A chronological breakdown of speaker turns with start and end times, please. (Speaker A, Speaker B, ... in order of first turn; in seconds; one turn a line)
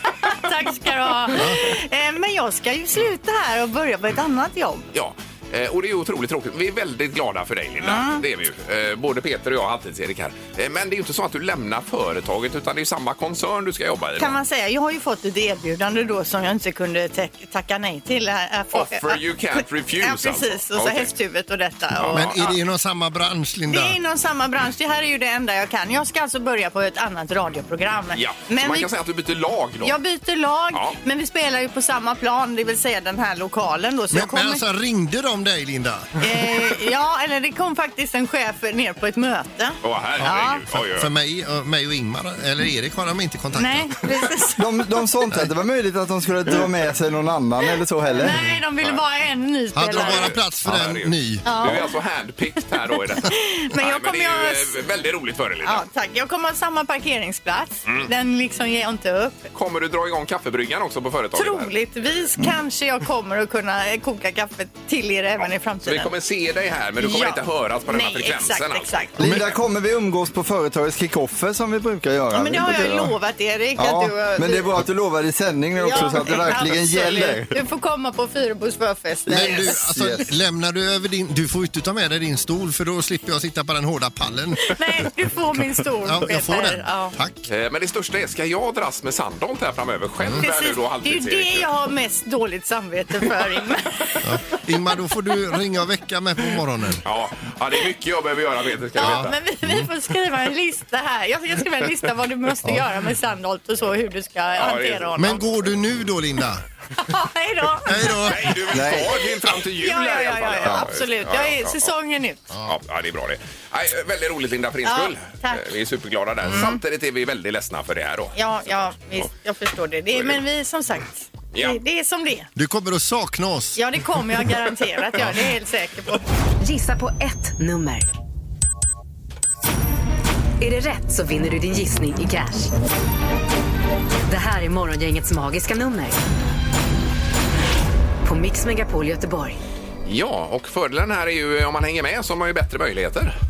Speaker A: 0.2-4.9
Speaker B: 4.9-14.3
Speaker A: 7.8-8.2
Speaker A: 14.2-22.6
Speaker B: 18.7-21.1
Speaker B: 22.0-22.4
Speaker C: 22.1-24.0
Speaker A: 23.7-28.9
Speaker B: 28.1-29.9
Speaker A: 29.8-34.6
Speaker C: 34.1-36.7
Speaker A: 36.2-40.6
Speaker B: 39.8-41.1
Speaker C: 40.2-44.3
Speaker A: 43.5-44.6
Speaker D: 44.6-48.4
Speaker A: 48.2-50.3
Speaker C: 49.7-51.8
Speaker B: 49.9-55.9
Speaker A: 51.5-51.8
Speaker A: 53.2-54.8
Speaker A: 55.6-59.5
Speaker B: 57.9-58.1
Speaker B: 59.5-61.7
Speaker A: 61.4-66.1
Speaker B: 65.8-69.5
Speaker A: 67.0-69.3
Speaker D: 69.2-73.2
Speaker A: 72.3-74.7
Speaker D: 73.8-77.5
Speaker A: 75.8-80.2
Speaker C: 79.3-84.7
Speaker D: 79.3-80.2
Speaker A: 84.6-87.2
Speaker C: 86.0-87.5
Speaker B: 87.5-91.7
Speaker A: 90.4-94.6
Speaker C: 94.2-97.0
Speaker B: 97.0-99.3
Speaker A: 99.0-105.4
Speaker C: 99.0-99.9
Speaker B: 104.6-105.4
Speaker C: 105.2-106.6
Speaker A: 107.0-108.3
Speaker C: 107.8-108.8
Speaker B: 108.3-111.9
Speaker D: 108.7-109.1
Speaker A: 109.5-112.4
Speaker C: 112.5-112.8
Speaker B: 112.7-118.9
Speaker A: 114.8-115.7
Speaker A: 116.5-116.8
Speaker A: 118.3-122.5
Speaker B: 121.5-121.8
Speaker C: 122.6-123.8
Speaker A: 123.8-126.2
Speaker E: 126.6-128.1
Speaker E: 130.6-132.7
Speaker E: 134.3-136.2
Speaker E: 138.2-139.6
Speaker B: 140.1-143.3